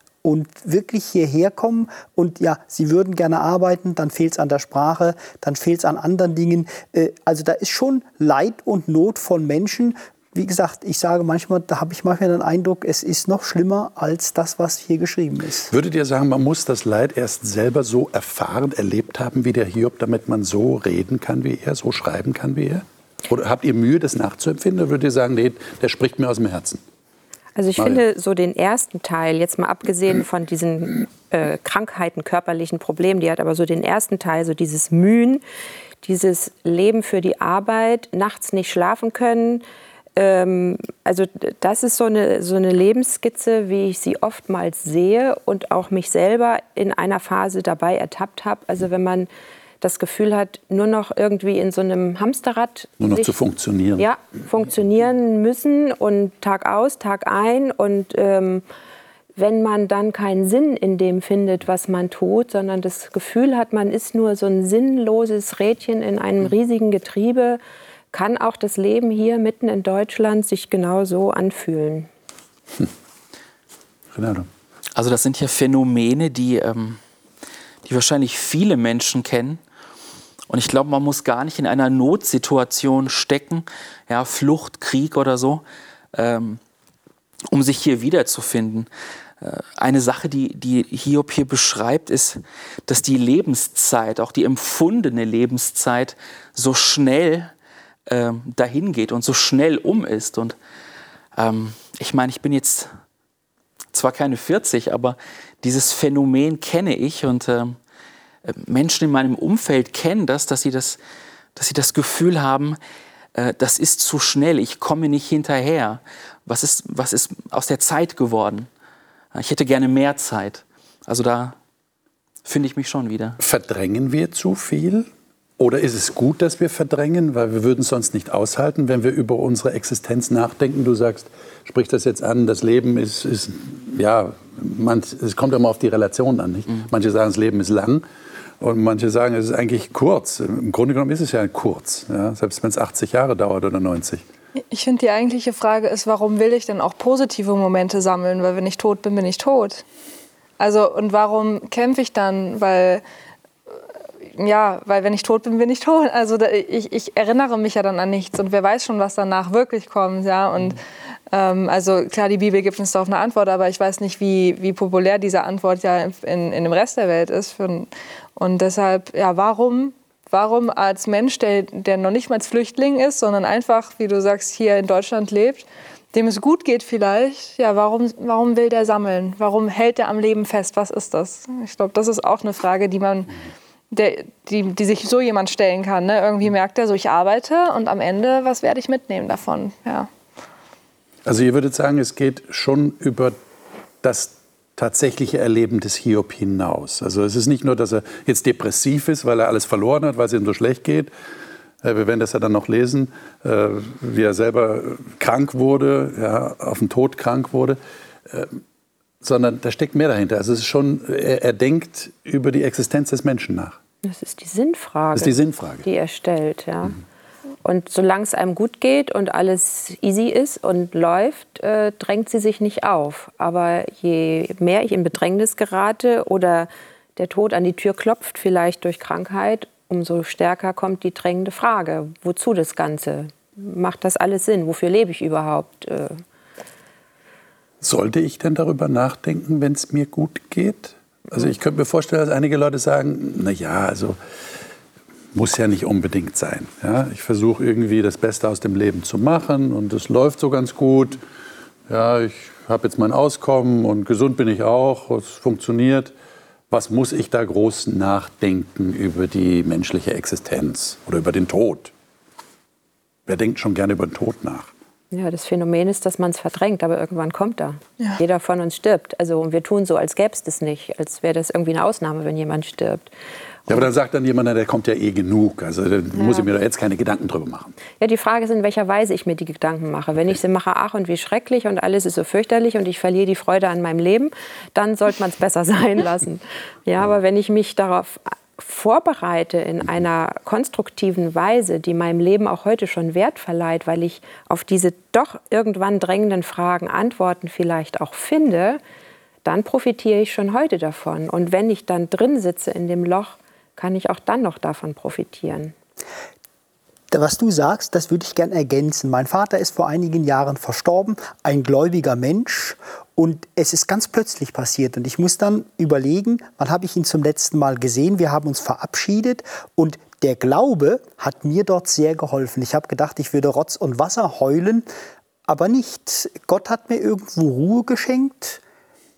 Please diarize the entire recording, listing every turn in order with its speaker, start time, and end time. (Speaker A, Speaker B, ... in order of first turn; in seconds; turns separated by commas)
Speaker A: 0.2-15.7, Speaker B: 15.7-26.8, Speaker C: 27.6-35.4, Speaker C: 36.0-39.6, Speaker C: 40.1-49.3, Speaker C: 49.8-53.4, Speaker B: 53.0-54.0, Speaker C: 54.0-58.6, Speaker C: 59.4-67.6, Speaker C: 68.1-72.1, Speaker B: 74.1-74.5, Speaker D: 74.9-77.0, Speaker D: 77.8-79.6, Speaker D: 80.5-86.6, Speaker D: 87.5-88.9, Speaker D: 89.4-97.5, Speaker D: 98.1-100.6, Speaker D: 101.3-102.9, Speaker D: 103.9-107.8, Speaker D: 108.4-111.0, Speaker D: 111.5-112.8, Speaker D: 113.3-118.7, Speaker D: 119.3-121.5, Speaker D: 122.4-123.4, Speaker B: 123.4-125.1, Speaker B: 125.6-138.0, Speaker B: 138.6-144.2, Speaker E: 144.7-149.8, Speaker E: 150.6-153.0, Speaker E: 154.3-183.4, Speaker E: 183.9-190.1, Speaker B: 191.2-193.3, Speaker B: 194.0-201.1, Speaker B: 201.8-208.6, Speaker B: 209.2-213.8, Speaker C: 214.0-217.0, Speaker B: 215.1-215.8, Speaker C: 217.6-236.2, Speaker B: 237.8-244.2, Speaker B: 245.3-251.2, Speaker B: 251.9-256.1, Speaker B: 256.7-261.9, Speaker B: 263.3-264.7, Speaker C: 265.1-273.1, Speaker B: 273.7-277.8, Speaker C: 278.0-298.8, Speaker C: 299.4-305.7, Speaker A: 307.1-324.9, Speaker A: 325.5-328.6